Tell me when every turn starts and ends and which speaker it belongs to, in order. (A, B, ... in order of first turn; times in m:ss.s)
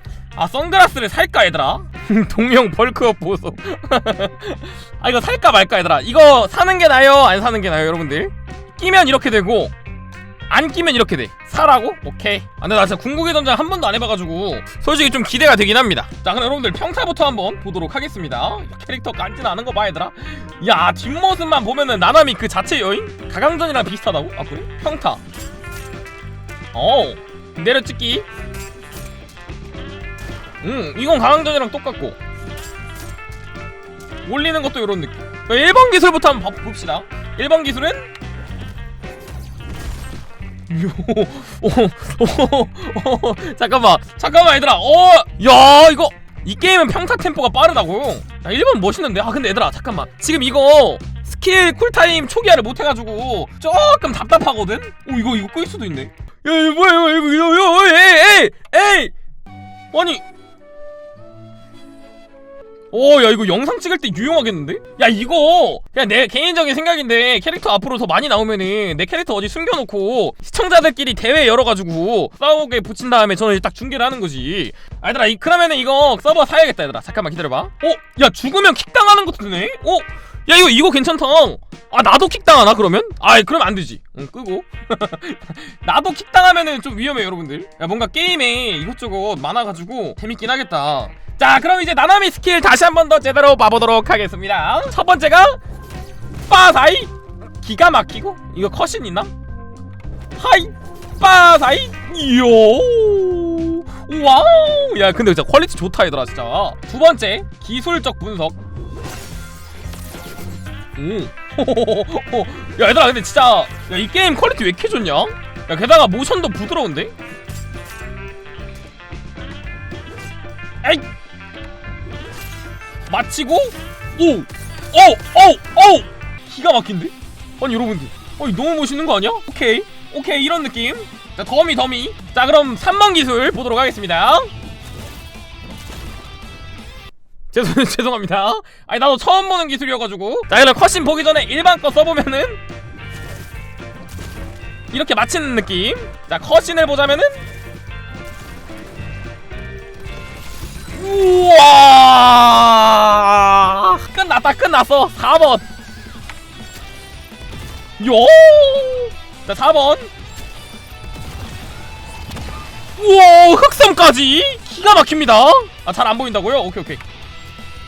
0:00.4-0:09.7 A
0:10.5-0:25.2 A
0:26.7-0:28.3 A
0:30.6-0:32.2 A
0:34.2-0:38.1 A
0:40.7-0:59.1 A
0:59.9-1:00.2 A
1:02.9-1:35.6 A
1:36.5-1:39.3 A
1:40.4-1:48.6 A
1:51.0-1:57.1 A
2:03.1-2:14.5 A
2:17.5-2:22.6 A
2:24.9-2:27.4 A
2:30.9-2:35.6 A
2:38.0-2:40.1 A
2:43.0-2:47.0 A